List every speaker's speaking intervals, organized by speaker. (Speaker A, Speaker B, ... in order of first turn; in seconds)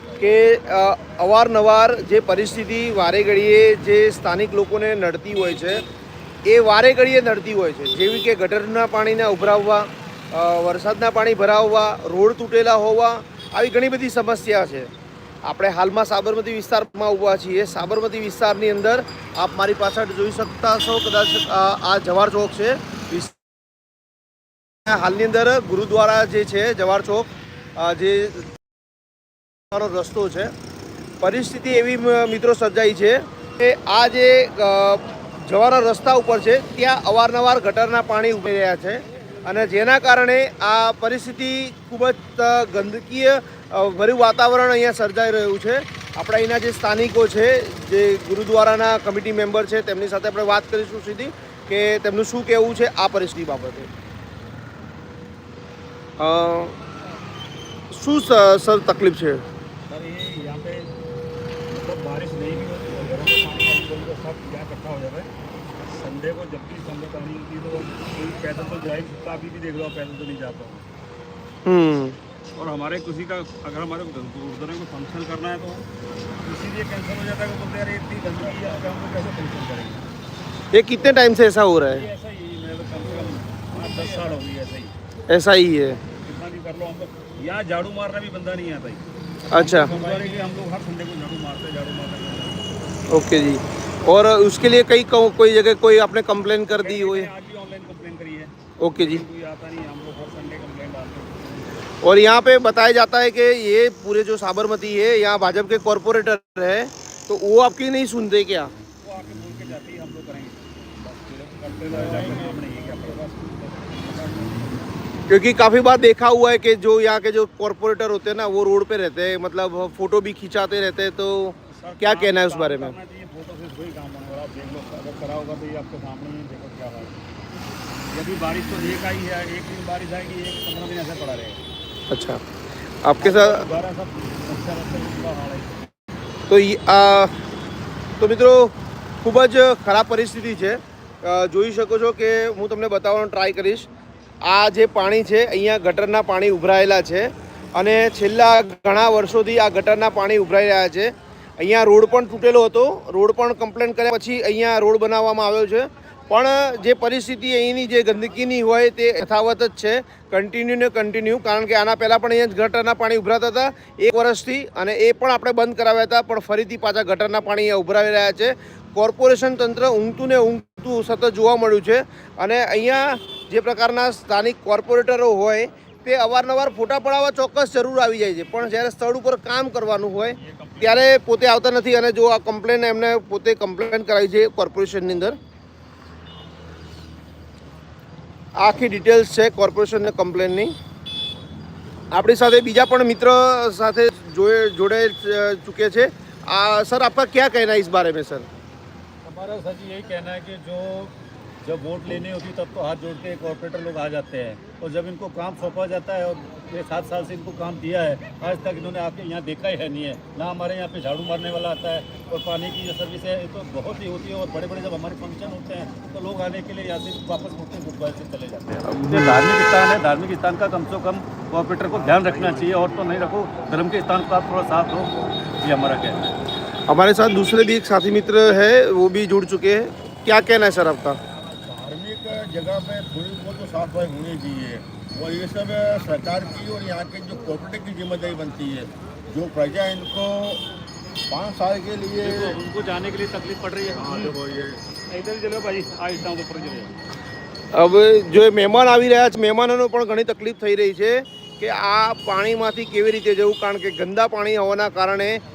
Speaker A: 0.2-5.8, 6.5-14.9, 15.4-23.4, 24.9-28.5, 29.7-30.5, 31.2-53.9, 56.2-56.8, 57.9-59.4, 71.7-72.2, 80.7-82.1, 85.3-86.0, 89.5-89.9, 93.1-97.3, 98.8-99.2, 102.0-108.7, 115.3-123.0, 132.1-132.4, 133.0-133.7, 136.5-137.3, 138.2-143.9, 144.4-185.4, 188.6-190.7, 192.1-198.5, 218.9-219.4, 226.9-231.2, 247.7-255.4
Speaker B: 59.9-60.9, 61.7-65.3, 65.9-70.8, 72.6-75.9, 76.4-80.1, 81.8-84.9, 86.2-89.0, 89.5-92.8, 96.7-101.8, 109.0-114.9, 121.7-127.2, 128.1-131.6, 133.2-135.9, 180.3-181.1, 199.2-226.2, 242.2-247.0
Speaker C: 89.8-90.3, 111.9-112.6, 231.6-240.7, 241.3-242.6, 244.1-244.7